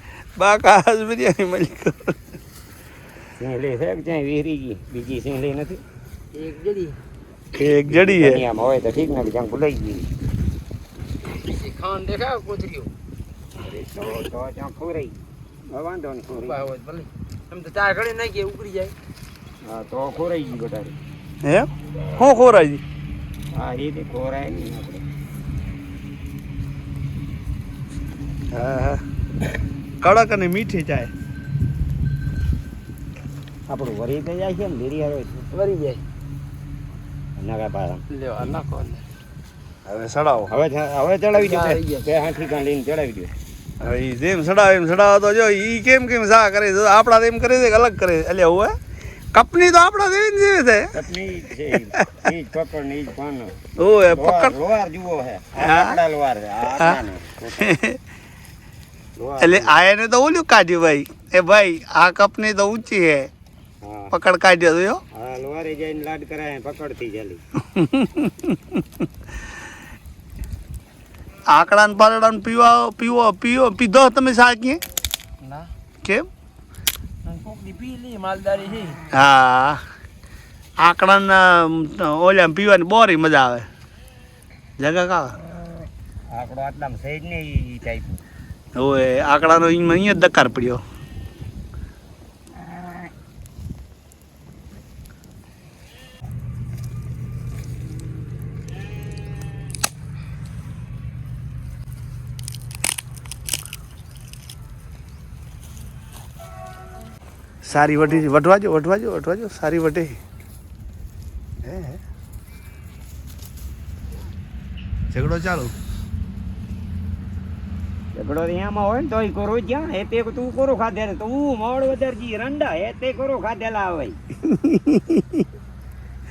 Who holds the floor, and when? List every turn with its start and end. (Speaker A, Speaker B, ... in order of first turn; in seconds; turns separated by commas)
Speaker A: 0.4-2.2, Speaker B: 3.4-5.8, Speaker C: 6.3-7.0, Speaker A: 7.5-8.4, Speaker B: 7.9-10.1, Speaker C: 11.2-12.9, Speaker B: 13.6-16.6, Speaker C: 16.4-18.9, Speaker B: 19.6-20.9, Speaker A: 21.4-22.8, Speaker B: 23.5-25.0, Speaker A: 28.5-29.0, Speaker A: 30.0-31.1, Speaker B: 33.7-35.5, Speaker C: 35.5-36.0, Speaker B: 37.4-38.0, Speaker C: 38.1-39.0, Speaker A: 39.9-40.5, Speaker B: 40.5-43.3, Speaker C: 41.4-42.1, Speaker A: 43.8-48.8, Speaker A: 49.3-50.9, Speaker B: 51.0-53.6, Speaker A: 53.8-54.6, Speaker B: 54.1-57.7, Speaker A: 55.6-56.0, Speaker A: 56.8-57.0, Speaker A: 57.6-58.0, Speaker B: 59.2-59.8, Speaker A: 59.4-63.3, Speaker B: 63.8-64.1, Speaker A: 64.1-65.0, Speaker B: 65.1-67.4, Speaker A: 67.6-68.8, Speaker A: 71.5-74.8, Speaker C: 75.4-75.7, Speaker C: 77.2-79.0, Speaker A: 79.1-79.8, Speaker A: 80.8-83.7, Speaker A: 84.8-85.4, Speaker B: 86.3-88.2, Speaker A: 88.8-90.8, Speaker A: 107.6-110.2, Speaker A: 111.6-112.0, Speaker A: 115.1-115.7, Speaker B: 118.1-124.2, Speaker A: 124.4-125.4